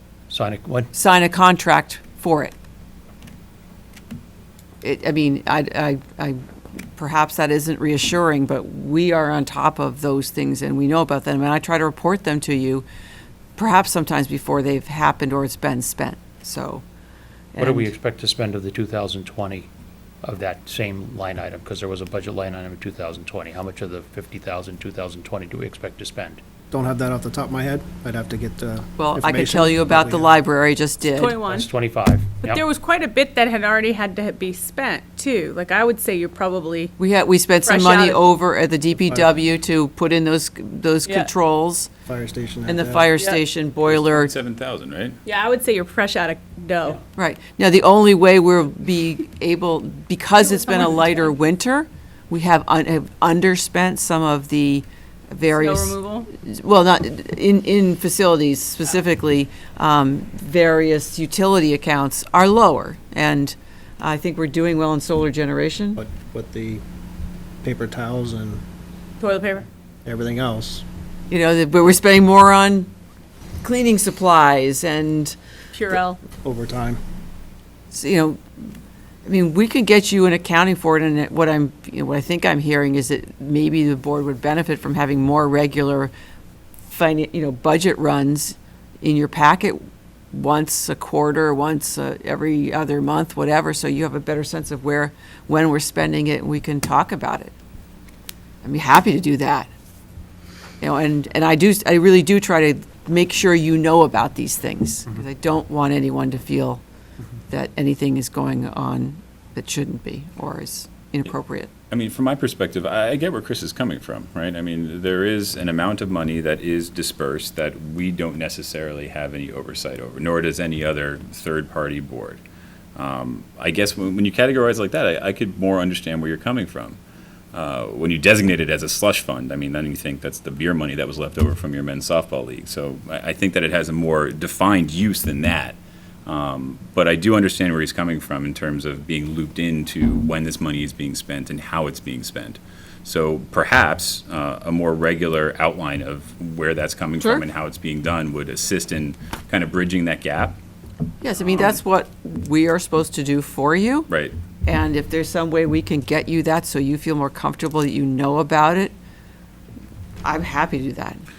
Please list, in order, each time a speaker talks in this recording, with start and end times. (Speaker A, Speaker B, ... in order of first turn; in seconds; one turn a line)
Speaker A: 0.3-0.9
Speaker B: 0.9-2.5
Speaker B: 4.8-6.4
Speaker B: 7.0-12.9
Speaker B: 13.6-16.9
Speaker B: 17.5-17.9
Speaker A: 17.6-19.7
Speaker A: 20.2-26.4
Speaker C: 26.7-30.4
Speaker B: 29.0-31.4
Speaker D: 31.1-31.7
Speaker A: 31.5-32.6
Speaker D: 32.4-36.9
Speaker B: 37.0-41.9
Speaker D: 37.6-38.2
Speaker C: 42.1-43.1
Speaker B: 42.7-44.3
Speaker E: 43.9-45.2
Speaker D: 45.3-47.0
Speaker B: 47.2-66.0
Speaker D: 50.5-51.3
Speaker D: 55.5-56.3
Speaker C: 66.0-66.8
Speaker C: 67.6-68.6
Speaker D: 69.2-69.7
Speaker C: 70.0-70.8
Speaker B: 71.3-72.9
Speaker B: 73.6-75.4
Speaker D: 75.7-76.2
Speaker C: 76.4-77.0
Speaker B: 77.9-78.7
Speaker B: 79.2-86.1
Speaker B: 86.9-89.8
Speaker B: 90.3-97.5
Speaker B: 98.6-99.7
Speaker B: 100.8-106.8
Speaker B: 107.5-111.7
Speaker E: 111.9-122.4
Speaker E: 123.0-127.0
Speaker E: 127.5-150.6
Speaker B: 147.2-147.4
Speaker B: 151.2-154.1
Speaker E: 154.1-154.3
Speaker B: 154.7-158.9
Speaker B: 160.2-161.2